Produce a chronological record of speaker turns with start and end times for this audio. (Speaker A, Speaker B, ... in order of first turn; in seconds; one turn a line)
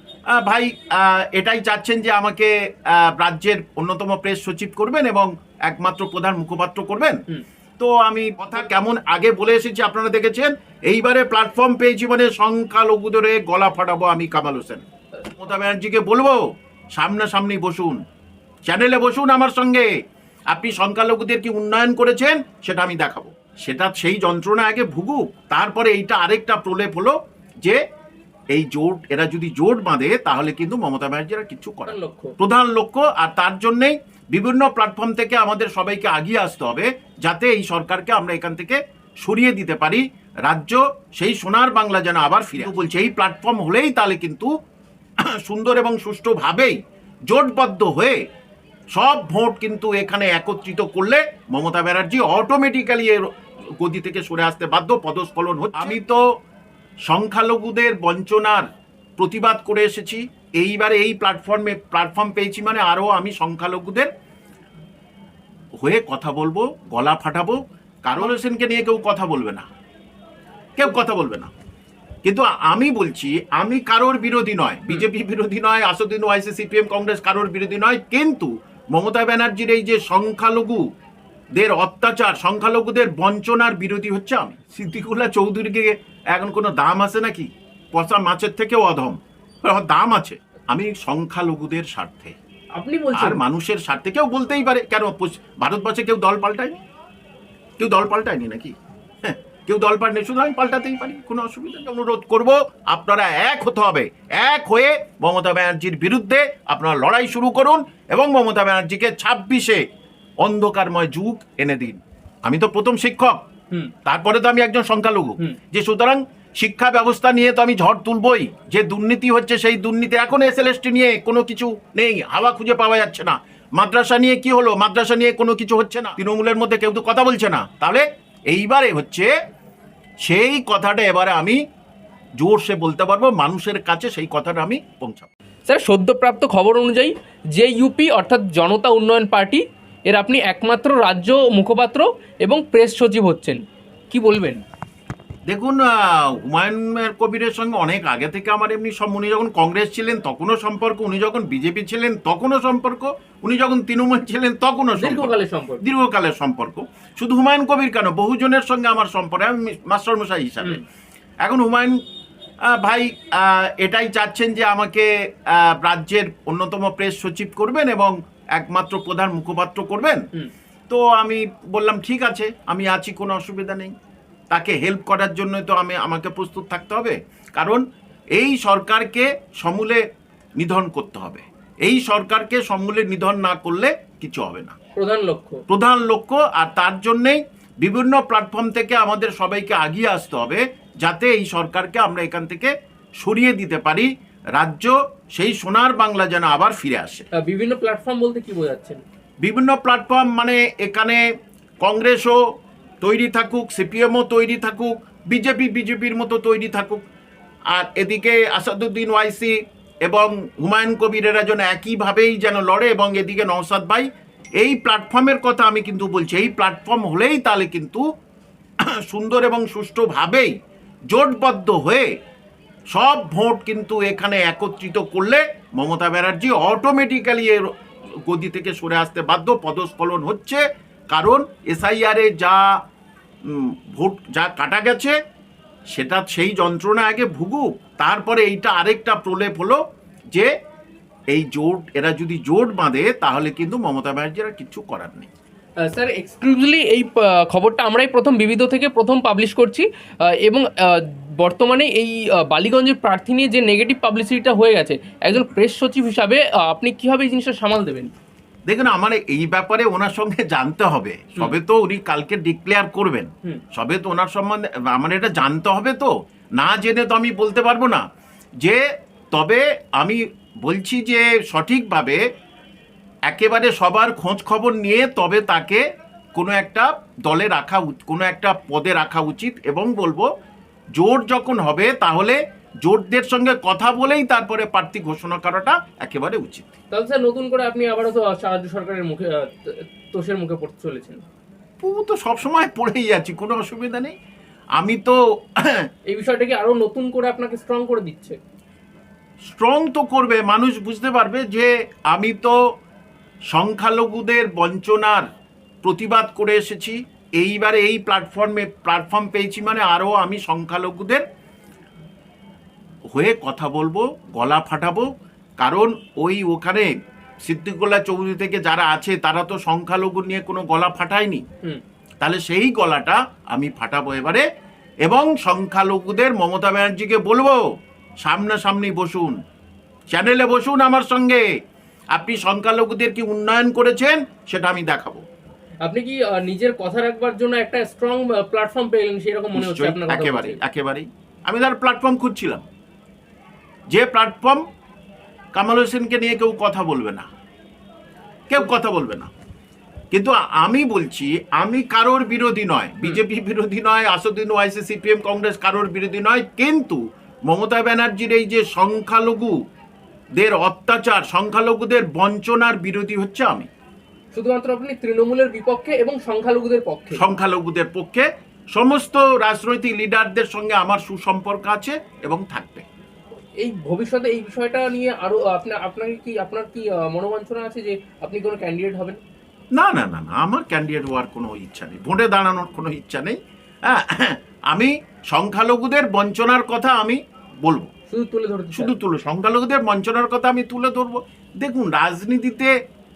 Speaker A: 0.3-7.2
Speaker A: 7.8-14.8
Speaker A: 15.3-18.0
Speaker A: 18.7-19.9
Speaker A: 20.5-27.8
Speaker A: 28.5-44.5
Speaker B: 31.9-32.3
Speaker A: 45.3-46.8
Speaker A: 47.3-48.2
Speaker A: 48.9-53.2
Speaker A: 53.8-56.2
Speaker A: 57.1-58.6
Speaker A: 59.2-64.1
Speaker A: 65.8-69.7
Speaker A: 70.8-71.5
Speaker A: 72.2-80.8
Speaker A: 81.6-92.3
Speaker B: 92.8-93.4
Speaker A: 93.1-96.8
Speaker A: 97.8-109.8
Speaker A: 110.4-113.4
Speaker A: 114.0-129.3
Speaker A: 130.2-131.6
Speaker A: 132.4-135.3
Speaker B: 135.7-144.6
Speaker A: 145.5-160.8
Speaker B: 154.9-155.8
Speaker A: 161.4-162.0
Speaker A: 162.7-170.2
Speaker A: 170.9-173.9
Speaker A: 174.5-177.8
Speaker A: 178.3-180.0
Speaker A: 180.6-184.8
Speaker B: 184.9-185.6
Speaker A: 185.7-197.3
Speaker B: 197.3-199.0
Speaker A: 199.4-201.2
Speaker A: 201.8-202.4
Speaker A: 203.0-207.0
Speaker A: 207.7-218.0
Speaker A: 218.9-220.5
Speaker A: 221.1-222.1
Speaker A: 222.9-227.7
Speaker A: 228.2-232.8
Speaker A: 233.4-235.2
Speaker A: 235.9-239.8
Speaker A: 241.3-245.3
Speaker B: 245.8-258.1
Speaker A: 258.7-268.0
Speaker A: 269.3-272.2
Speaker A: 273.3-275.8
Speaker A: 276.4-280.3
Speaker A: 280.9-286.7
Speaker B: 286.9-291.2
Speaker A: 291.8-294.1
Speaker A: 294.8-295.9
Speaker B: 296.1-298.4
Speaker A: 299.5-302.6
Speaker A: 303.5-305.3
Speaker A: 305.8-311.2
Speaker A: 313.1-315.1
Speaker A: 315.6-316.9
Speaker A: 317.4-321.4
Speaker A: 322.2-324.4
Speaker A: 325.0-327.6
Speaker A: 328.2-329.4
Speaker A: 330.1-331.4
Speaker A: 332.1-335.2
Speaker B: 335.8-340.6
Speaker A: 339.5-342.6
Speaker A: 343.9-344.6
Speaker A: 345.5-347.3
Speaker A: 348.5-349.3
Speaker A: 350.1-359.5
Speaker A: 360.4-363.7
Speaker B: 364.3-367.2
Speaker A: 367.1-372.9
Speaker B: 373.6-379.2
Speaker A: 379.7-387.9
Speaker B: 388.1-389.0
Speaker A: 388.7-392.7